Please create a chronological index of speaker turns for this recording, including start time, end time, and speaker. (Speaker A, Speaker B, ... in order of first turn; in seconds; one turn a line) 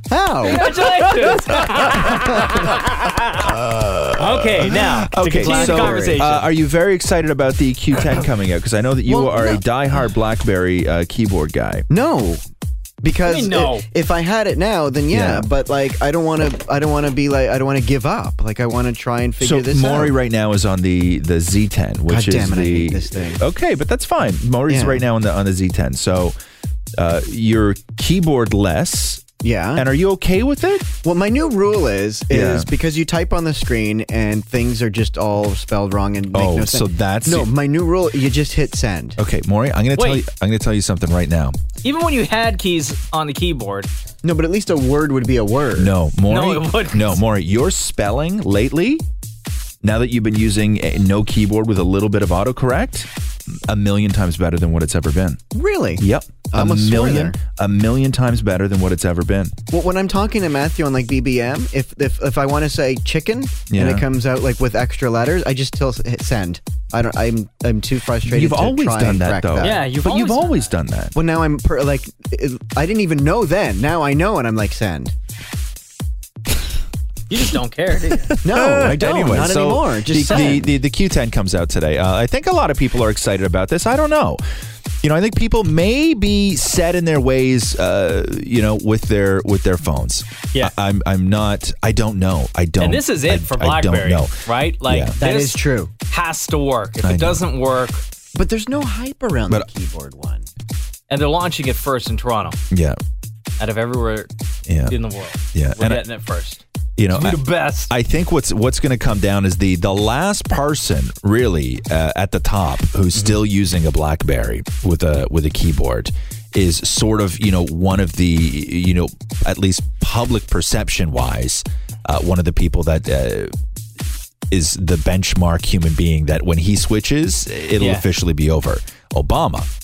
Speaker A: 0.1-0.7
Speaker B: 0.5-2.3
Speaker C: 0.5-2.5
Speaker C: 3.4-11.8
Speaker B: 4.2-6.5
Speaker A: 5.3-6.2
Speaker A: 9.1-9.7
Speaker A: 11.9-12.4
Speaker A: 13.0-20.2
Speaker B: 13.2-13.8
Speaker C: 15.1-15.5
Speaker C: 19.4-26.4
Speaker A: 22.1-23.4
Speaker A: 24.7-25.1
Speaker C: 27.0-29.2
Speaker A: 29.4-29.9
Speaker C: 29.8-30.9
Speaker A: 31.0-39.2
Speaker C: 32.3-32.7
Speaker C: 36.3-37.5
Speaker C: 39.2-41.6
Speaker B: 39.9-40.2
Speaker B: 41.8-43.9
Speaker A: 44.2-45.9
Speaker C: 45.8-49.0
Speaker B: 46.3-47.2
Speaker C: 49.8-53.1
Speaker C: 53.7-55.4
Speaker A: 55.5-57.4
Speaker C: 56.0-59.5
Speaker A: 59.7-69.8
Speaker C: 63.7-64.0
Speaker C: 68.2-71.1
Speaker B: 69.6-70.7
Speaker A: 71.2-75.1
Speaker B: 77.3-78.3
Speaker A: 78.4-80.7
Speaker C: 78.5-84.4
Speaker B: 80.3-80.6
Speaker C: 85.0-95.2
Speaker B: 92.8-98.0
Speaker A: 95.2-95.9
Speaker C: 97.0-97.4
Speaker A: 98.3-100.5
Speaker B: 101.1-102.6
Speaker C: 102.7-103.0
Speaker B: 103.6-104.3
Speaker C: 104.7-105.0
Speaker B: 104.9-107.9
Speaker C: 105.5-106.0
Speaker C: 107.0-123.5
Speaker C: 124.5-129.7
Speaker B: 127.8-128.1